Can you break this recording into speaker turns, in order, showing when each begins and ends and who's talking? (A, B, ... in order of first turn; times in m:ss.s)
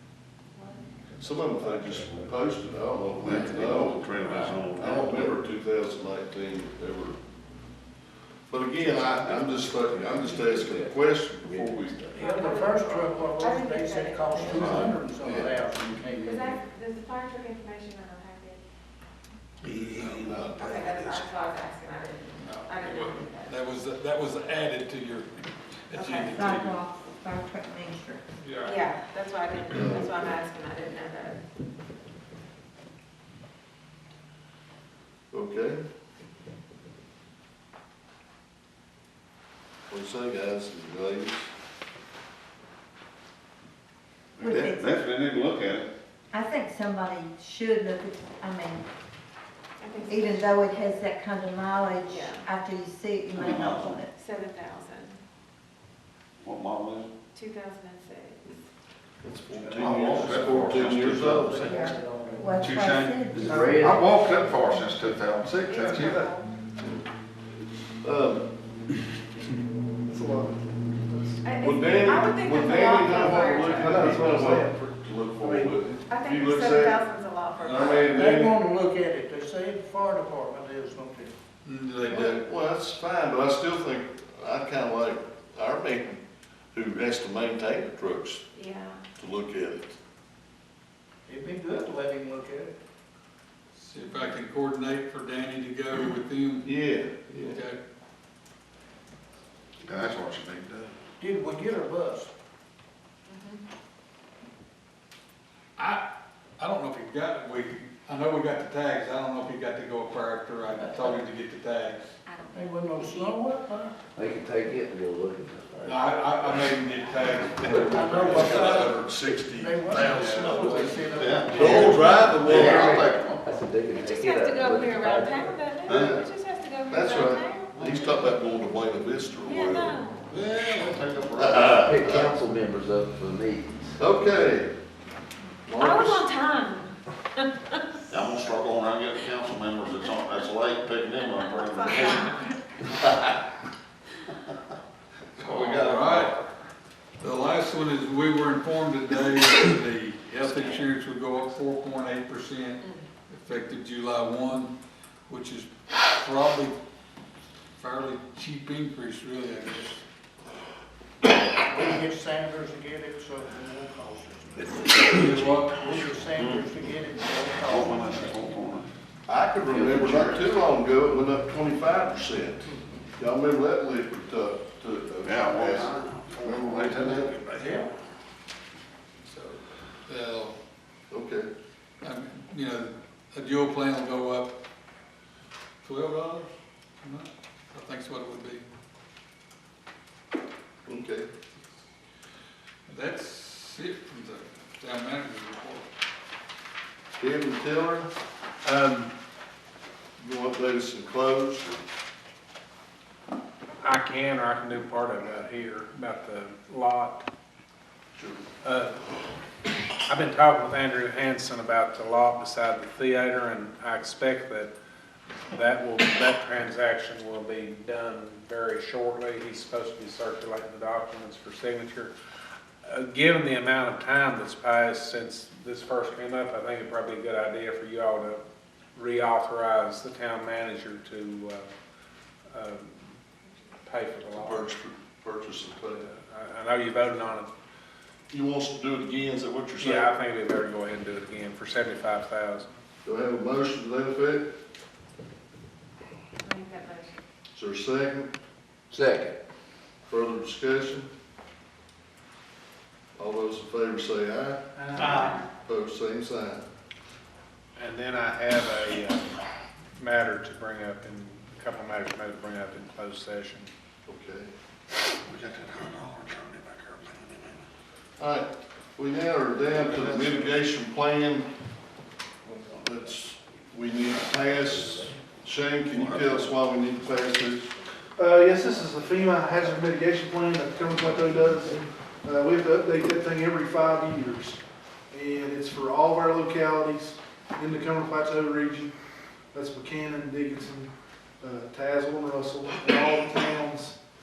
0:00.6-0:00.8 A
0:01.2-0:04.1 B
0:01.2-0:02.1 C
0:03.2-0:05.3 D
0:04.2-0:04.6 E
0:04.6-0:07.2 B
0:08.5-0:12.1 B
0:08.8-0:12.1 C
0:12.1-0:14.9 A
0:12.1-0:16.6 E
0:14.6-0:15.4 B
0:16.2-0:18.6 A
0:19.6-0:20.8 C
0:20.0-0:20.9 B
0:20.5-0:23.6 A
0:22.4-0:26.8 F
0:25.9-0:26.3 A
0:26.3-0:28.2 G
0:28.4-0:28.8 F
0:28.6-0:31.4 A
0:29.7-0:30.4 B
0:35.3-0:35.8 B
0:39.9-0:41.5 B
0:44.4-0:44.9 G
0:44.4-0:45.9 D
0:46.3-0:48.8 G
0:49.8-0:50.8 A
0:50.1-0:54.1 G
0:52.1-0:52.5 A
0:53.4-0:54.0 D
0:54.1-0:55.2 A
0:56.4-0:57.1 D
0:57.3-0:58.6 A
0:59.2-1:01.7 B
0:59.6-1:00.5 E
0:59.8-1:01.8 D
1:01.4-1:02.4 E
1:01.7-1:02.0 A
1:02.3-1:03.9 G
1:02.6-1:03.1 F
1:03.3-1:04.3 C
1:03.7-1:06.2 D
1:05.6-1:06.5 A
1:05.8-1:06.3 H
1:06.8-1:07.0 B
1:08.0-1:08.5 B
1:10.1-1:11.4 H
1:11.4-1:14.2 A
1:11.5-1:18.6 B
1:13.6-1:15.8 H
1:16.0-1:18.1 A
1:18.1-1:21.3 E
1:21.6-1:22.3 F
1:22.0-1:26.2 B
1:26.7-1:28.4 B
1:28.5-1:29.0 A
1:29.2-1:30.0 B
1:31.3-1:32.7 E
1:33.7-1:36.7 F
1:36.6-1:37.6 B
1:37.3-1:37.8 F
1:39.8-1:40.9 D
1:41.2-1:42.3 E
1:43.3-1:43.6 A
1:45.8-1:46.0 F
1:46.6-1:52.2 F
1:50.7-1:51.2 E
1:52.2-1:53.4 G
1:52.5-1:54.0 E
1:54.1-1:56.0 C
1:55.8-1:59.0 F
1:57.6-1:57.9 C
1:57.7-2:03.0 B
1:57.8-2:02.3 E
2:00.1-2:00.5 I
2:01.1-2:02.0 D
2:02.3-2:05.6 C
2:02.6-2:03.4 D
2:03.9-2:07.9 A
2:05.8-2:06.2 B
2:06.9-2:10.8 B
2:09.4-2:10.3 A
2:10.3-2:11.5 D
2:11.4-2:12.4 B
2:11.4-2:14.0 C
2:14.0-2:14.7 B
2:15.6-2:16.3 B
2:15.8-2:18.0 A
2:18.1-2:22.2 D
2:21.3-2:22.6 A
2:25.4-2:26.3 F
2:25.4-2:26.5 D
2:27.2-2:34.7 F
2:35.3-2:36.8 F
2:37.8-2:40.0 F
2:41.6-2:48.5 E
2:45.0-2:45.8 F
2:46.3-2:46.6 D
2:47.7-2:48.9 D
2:49.2-2:57.6 B
2:49.8-2:50.2 C
2:55.2-2:57.6 D
2:57.6-2:57.9 E
2:59.2-3:00.6 F
3:01.1-3:01.5 B
3:02.0-3:04.6 F
3:05.8-3:06.5 F
3:07.0-3:08.6 F
3:10.8-3:11.3 B
3:12.9-3:15.9 F
3:17.2-3:18.1 B
3:18.6-3:19.1 I
3:20.2-3:21.8 B
3:23.8-3:27.2 I
3:28.2-3:28.4 B
3:28.6-3:29.0 I
3:30.0-3:34.7 I
3:35.5-3:42.1 I
3:42.8-3:48.4 I
3:48.9-3:51.7 I
3:52.5-3:53.1 I
3:53.8-3:54.7 I
3:54.3-3:56.0 B
3:55.9-3:57.5 I
3:58.3-4:00.1 B
3:59.8-4:02.7 I
4:03.0-4:04.5 B
4:06.4-4:07.2 A
4:07.5-4:08.3 B
4:08.9-4:09.3 C
4:10.0-4:11.1 B
4:13.2-4:14.8 B
4:14.8-4:15.3 I
4:15.1-4:15.4 A
4:15.4-4:16.6 B
4:17.8-4:19.3 I
4:20.0-4:23.7 I
4:24.0-4:24.5 B
4:25.2-4:27.5 D
4:28.2-4:31.5 B
4:29.9-4:30.3 D
4:32.7-4:37.7 B
4:34.5-4:35.2 C
4:35.9-4:36.2 D
4:38.2-4:48.9 H
4:41.3-4:41.8 C
4:49.5-4:54.0 H